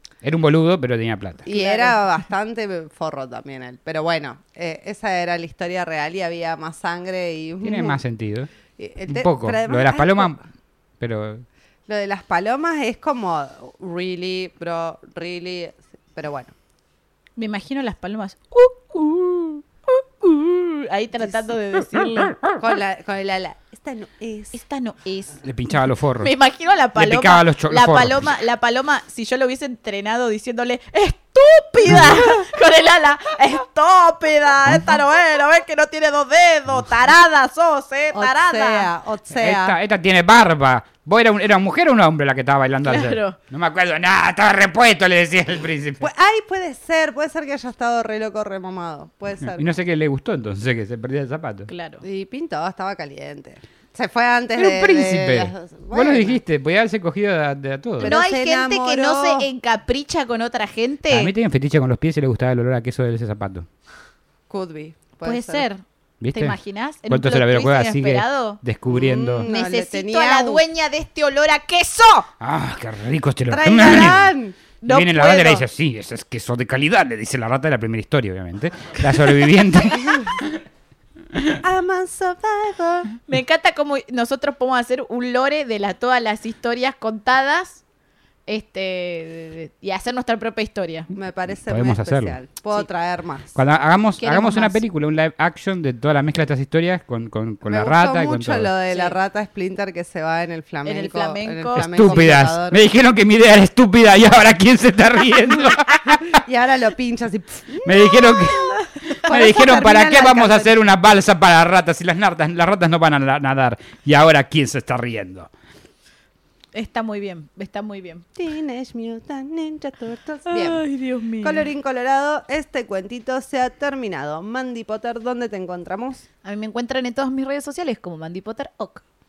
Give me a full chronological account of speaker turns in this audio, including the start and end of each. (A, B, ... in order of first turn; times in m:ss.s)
0:00.2-0:01.4 A
0:01.4-0:02.0 B
0:01.4-0:08.0 C
0:07.6-0:08.5 A
0:08.8-0:10.4 C
0:09.1-0:10.4 A
0:11.0-0:11.4 A
0:11.9-0:16.5 C
0:17.4-0:22.4 B
0:22.6-0:24.6 C
0:24.5-0:25.4 B
0:25.4-0:26.3 A
0:26.2-0:38.9 B
0:27.0-0:28.2 A
0:38.1-0:39.8 C
0:39.3-0:46.0 A
0:42.8-0:43.4 B
0:46.0-0:49.6 C
0:49.4-0:51.7 A
0:51.7-0:52.0 B
0:52.0-0:56.4 C
0:54.6-0:58.2 A
0:58.0-0:59.5 C
0:58.0-1:01.3 B
1:01.1-1:03.7 A
1:04.5-1:05.7 C
1:05.2-1:05.8 B
1:06.2-1:09.5 A
1:06.3-1:08.6 B
1:08.9-1:10.6 C
1:09.4-1:12.3 B
1:12.4-1:14.3 A
1:13.5-1:14.6 C
1:14.8-1:15.6 B
1:14.8-1:20.6 A
1:21.6-1:23.1 C
1:23.2-1:27.8 B
1:28.5-1:31.1 B
1:31.1-1:33.6 C
1:31.6-1:32.4 A
1:33.5-1:38.7 A
1:34.2-1:34.8 B
1:37.6-1:42.8 C
1:40.8-1:42.2 B
1:41.7-1:46.4 A
1:46.0-1:50.8 C
1:47.8-1:48.6 A
1:49.2-1:55.5 A
1:56.7-1:58.2 B
1:58.4-2:00.8 C
2:00.5-2:01.7 B
2:01.4-2:06.2 C
2:06.4-2:09.0 B